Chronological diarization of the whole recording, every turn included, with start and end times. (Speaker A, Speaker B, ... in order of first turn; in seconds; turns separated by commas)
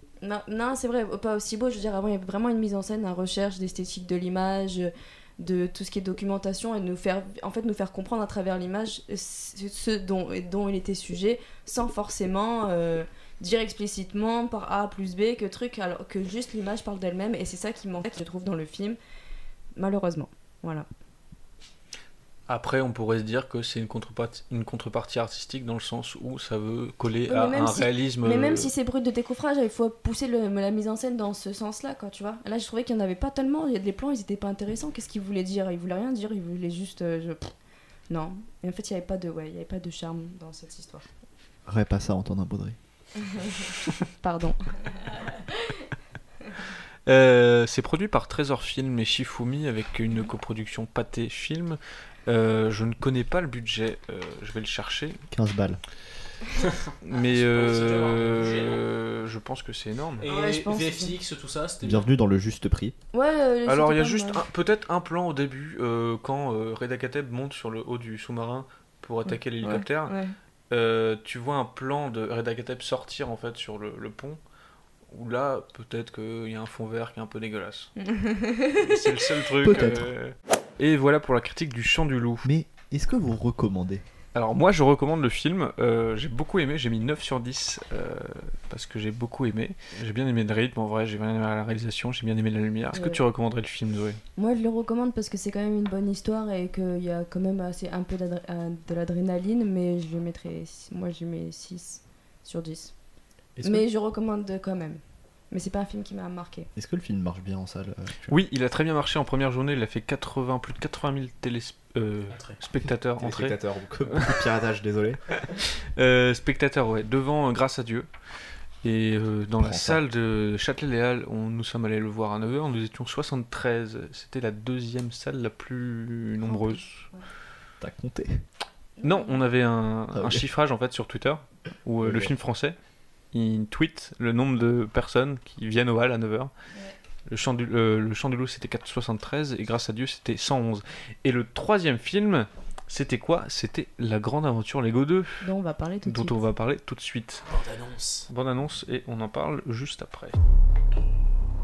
Speaker A: 0.2-19.0, Speaker A: 19.8-20.9, Speaker B: 22.5-28.7, Speaker A: 27.3-37.5, Speaker A: 38.1-41.1, Speaker C: 41.7-42.8, Speaker A: 43.3-45.8, Speaker B: 47.0-55.2, Speaker C: 55.3-55.8, Speaker D: 56.5-58.8, Speaker B: 57.0-60.3, Speaker D: 60.2-62.1, Speaker A: 60.2-61.1, Speaker C: 61.8-62.9, Speaker A: 63.1-64.4, Speaker B: 63.7-70.1, Speaker A: 69.2-70.3, Speaker B: 70.7-74.4, Speaker B: 75.1-77.9, Speaker A: 78.0-79.0, Speaker B: 78.8-82.5, Speaker C: 79.6-80.1, Speaker C: 82.4-84.0, Speaker B: 84.3-94.2, Speaker A: 92.9-93.2, Speaker A: 94.4-102.9, Speaker C: 103.6-103.8, Speaker A: 103.6-106.7, Speaker C: 106.8-108.4, Speaker B: 108.3-113.6, Speaker D: 112.3-112.6, Speaker C: 113.2-115.2, Speaker B: 115.6-118.1, Speaker B: 118.8-127.0, Speaker C: 119.6-120.0, Speaker A: 126.4-127.2, Speaker C: 127.8-128.4, Speaker A: 129.0-129.4, Speaker B: 129.0-132.8, Speaker C: 130.1-130.4, Speaker C: 132.0-132.3, Speaker B: 133.3-136.5, Speaker B: 137.3-145.4, Speaker A: 145.4-146.4, Speaker B: 146.0-147.4, Speaker D: 147.5-148.3, Speaker B: 148.3-150.4